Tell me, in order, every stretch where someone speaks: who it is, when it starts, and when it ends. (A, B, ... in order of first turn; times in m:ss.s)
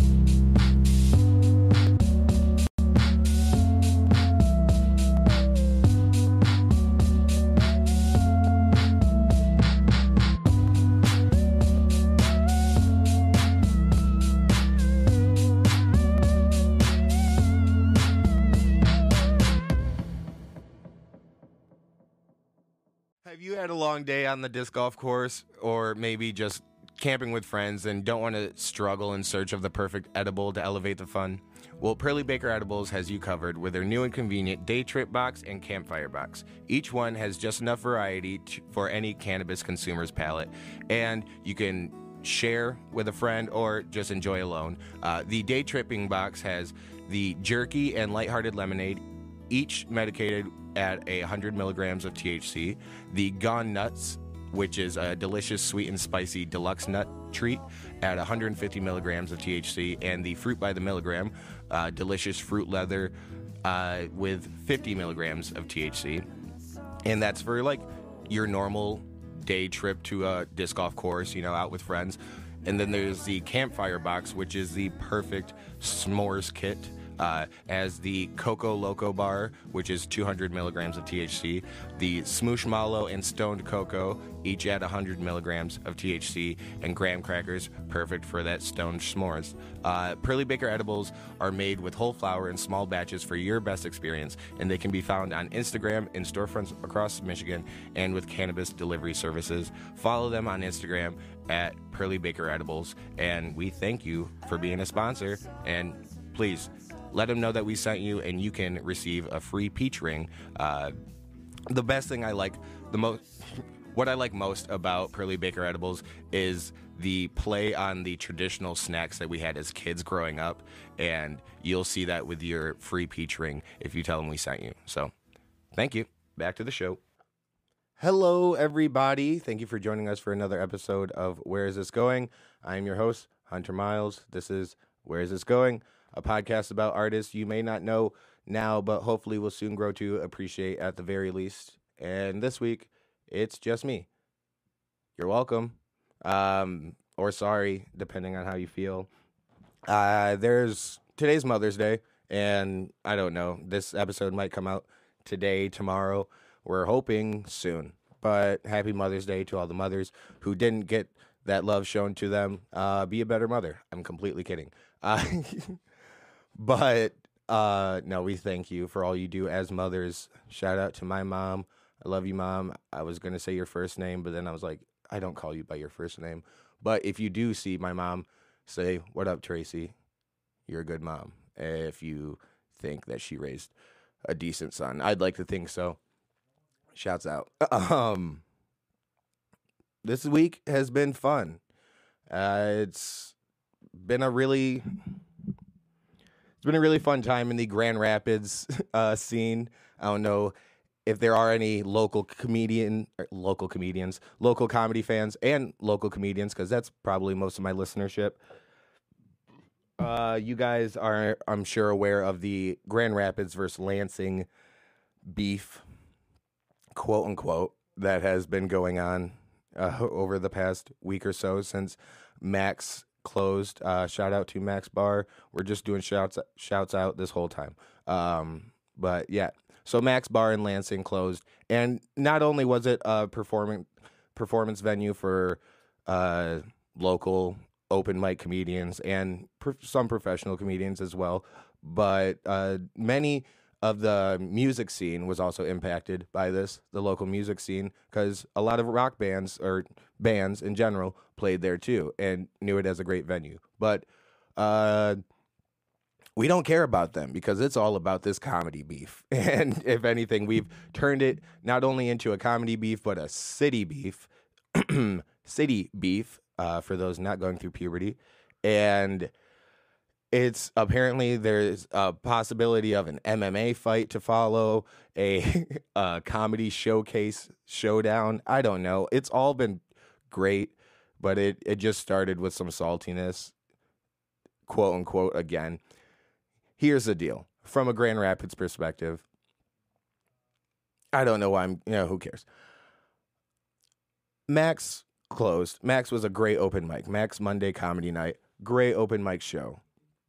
0:23.2-1:06.3 A
1:07.0-1:50.9 A
1:51.7-2:05.1 A
2:05.7-2:07.0 A
2:08.0-2:24.1 A
2:25.2-2:29.1 A
2:29.9-2:45.8 A
2:46.6-2:59.9 A
3:00.7-3:03.7 A
3:04.3-3:06.0 A
3:06.9-3:08.4 A
3:10.0-3:11.6 A
3:12.3-3:13.3 A
3:14.0-3:14.9 A
3:16.6-3:20.5 A
3:21.0-3:28.4 A
3:30.0-3:34.5 A
3:35.3-3:35.8 A
3:37.0-4:14.0 A
4:14.6-4:15.2 A
4:16.4-4:29.3 A
4:30.3-4:43.5 A
4:44.7-4:45.8 A
4:46.8-4:49.2 A
4:51.1-4:52.4 A
4:54.5-4:59.8 A